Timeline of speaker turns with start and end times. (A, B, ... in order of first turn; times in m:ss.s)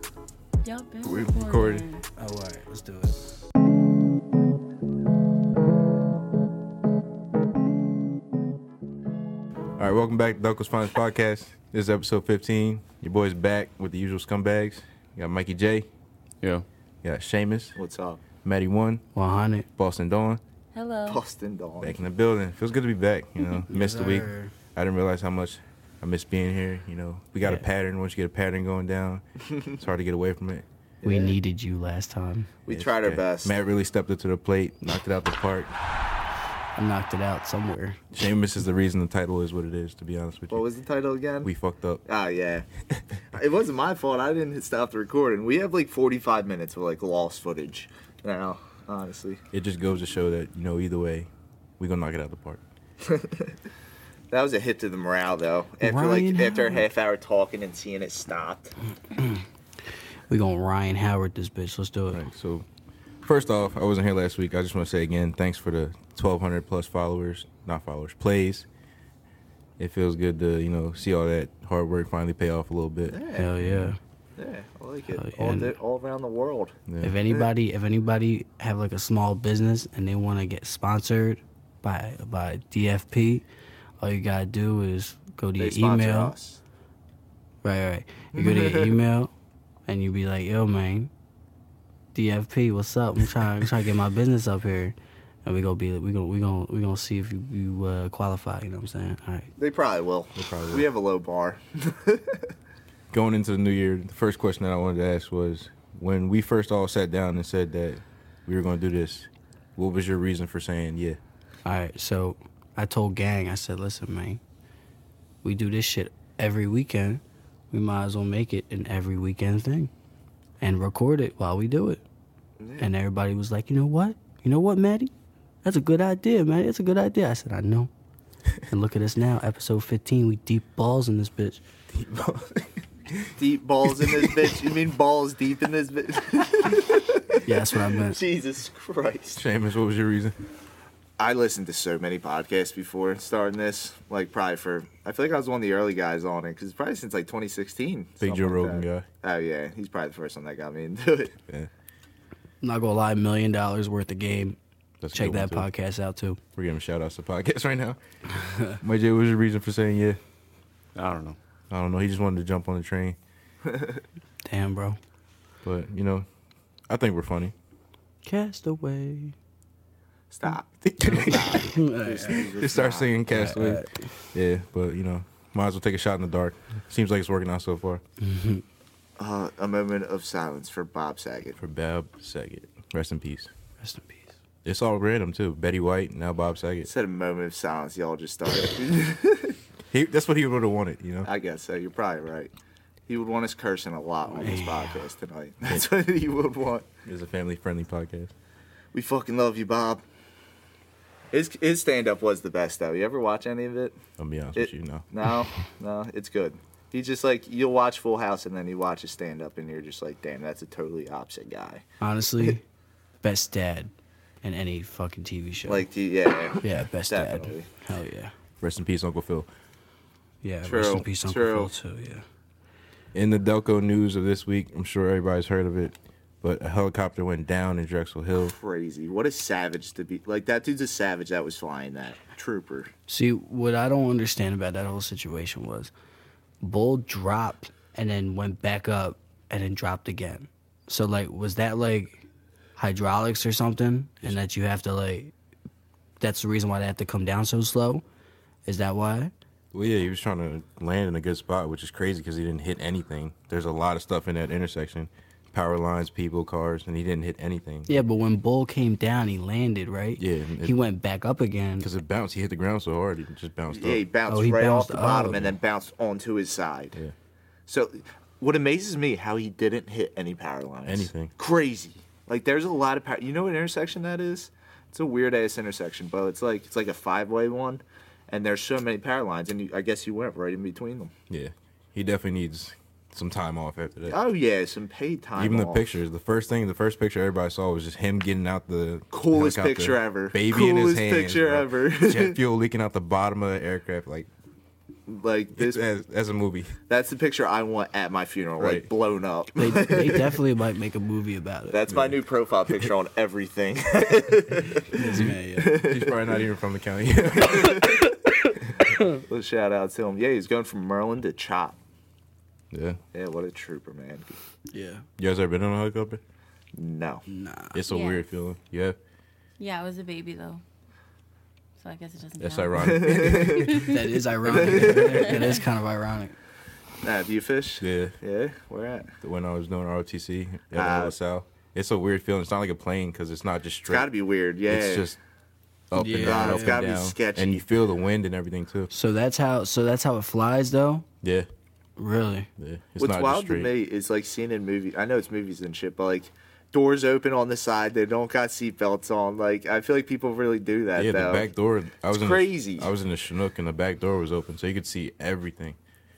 0:00.6-0:02.0 A
0:01.0-0:01.8 B
0:02.2-0:03.2 C
0:09.8-0:15.9 B
0:16.4-0:17.8 B
0:17.8-0:18.2 D
0:18.4-0:19.0 B
0:19.1-0:19.7 C
0:19.8-0:20.4 B
0:20.7-0:21.2 A
0:21.0-0:22.0 D
0:21.8-0:30.6 B
0:23.7-0:24.5 C
0:31.0-0:31.4 D
0:31.0-0:32.5 C
0:32.6-0:33.5 D
0:32.7-0:35.7 B
0:36.8-0:38.0 C
0:38.1-0:40.6 B
0:40.5-0:41.5 D
0:41.4-0:42.0 B
0:42.0-0:42.7 D
0:43.3-0:49.4 D
0:49.5-0:52.6 B
0:53.0-0:53.5 D
0:54.3-0:58.7 D
0:55.8-0:56.9 C
0:59.1-0:59.4 C
1:00.3-1:02.2 C
1:02.1-1:02.6 B
1:03.2-1:08.6 B
1:09.8-1:13.9 B
1:13.1-1:13.5 D
1:13.4-1:14.0 C
1:14.4-1:16.8 D
1:15.1-1:15.7 C
1:16.9-1:17.2 B
1:17.0-1:23.4 C
1:24.0-1:26.3 C
1:25.6-1:26.6 D
1:27.6-1:29.3 C
1:28.3-1:29.0 D
1:29.9-1:31.1 C
1:32.1-1:39.5 C
1:39.6-1:42.5 D
1:40.4-1:40.9 B
1:43.1-1:51.2 B
1:51.6-1:54.4 C
1:55.4-1:59.9 C
2:00.6-2:02.0 C
2:02.6-2:02.9 D
2:02.8-2:05.1 C
2:05.6-2:07.9 C
2:08.7-2:11.6 C
2:11.9-2:13.3 B
2:13.4-2:19.4 D
2:13.9-2:14.6 B
2:17.4-2:18.2 C
2:19.3-2:20.4 B
2:21.2-2:31.3 D
2:28.2-2:29.1 B
2:32.6-2:34.6 C
2:35.0-2:35.7 B
2:35.1-2:36.4 C
2:36.6-2:38.0 B
2:38.3-2:38.8 C
2:38.8-2:40.2 B
2:40.9-2:43.2 B
2:43.7-2:44.0 D
2:44.4-2:45.0 C
2:45.6-2:46.3 B
2:46.9-2:47.5 B
2:48.2-2:49.3 C
2:50.3-2:53.1 D
2:50.8-2:51.7 B
2:51.0-2:52.5 C
2:52.4-2:58.0 B
2:53.3-2:54.1 C
2:58.2-2:58.6 C
2:59.2-3:01.6 D
3:01.6-3:03.5 B
3:03.8-3:04.3 C
3:04.6-3:06.9 B
3:06.8-3:09.6 D
3:09.9-3:11.3 B
3:11.2-3:12.5 D
3:13.1-3:16.9 D
3:14.3-3:15.0 C
3:17.0-3:18.3 B
3:18.9-3:20.0 D
3:21.3-3:24.0 D
3:24.2-3:25.1 B
3:24.5-3:31.8 D
3:32.0-3:32.6 C
3:33.2-3:33.9 C
3:34.4-3:35.8 C
3:35.6-3:37.7 D
3:36.6-3:38.3 C
3:38.6-3:39.5 B
3:40.4-3:42.2 C
3:40.6-3:41.7 D
3:43.1-3:48.5 B
3:48.4-3:52.9 D
3:53.1-3:55.9 C
3:56.6-4:02.2 C
4:02.8-4:05.3 C
4:06.2-4:08.0 C
4:08.6-4:09.3 C
4:09.7-4:18.0 B
4:17.9-4:21.9 C
4:20.2-4:20.8 B
4:21.8-4:24.0 B
4:23.7-4:27.0 D
4:24.3-4:25.5 C
4:27.7-4:41.1 D
4:30.8-4:31.3 B
4:41.3-4:44.2 B
4:44.1-4:45.8 D
4:45.4-4:54.3 B
4:49.1-4:52.4 D
4:55.1-4:55.8 D
4:55.5-4:56.7 B
4:56.9-5:00.4 D
4:58.6-4:58.9 B
4:59.6-5:01.8 C
5:01.7-5:05.0 D
5:01.9-5:02.1 B
5:04.9-5:05.8 C
5:05.0-5:07.9 B
5:05.6-5:06.3 D
5:07.4-5:08.1 D
5:08.8-5:09.2 C
5:09.1-5:11.8 D
5:12.7-5:13.0 B
5:13.1-5:14.4 D
5:14.7-5:15.0 C
5:15.2-5:16.2 B
5:16.7-5:17.2 D
5:17.3-5:17.8 C
5:17.7-5:19.0 B
5:17.9-5:18.2 A
5:19.6-5:20.6 A
5:21.8-5:24.0 A
5:22.4-5:23.9 B
5:22.8-5:23.7 D
5:23.7-5:26.4 C
5:24.4-5:25.4 D
5:25.1-5:25.6 A
5:27.0-5:29.1 D
5:27.8-5:28.2 B
5:29.2-5:34.1 B
5:30.7-5:31.1 D
5:33.9-5:35.1 D
5:34.7-5:35.2 B
5:35.9-5:38.9 B
5:35.9-5:36.8 C
5:36.2-5:37.6 D
5:38.9-5:41.0 C
5:41.2-5:41.5 B
5:42.0-5:42.5 C
5:42.6-5:43.7 B
5:43.0-5:51.5 D
5:50.9-5:55.8 B
5:52.1-5:52.9 D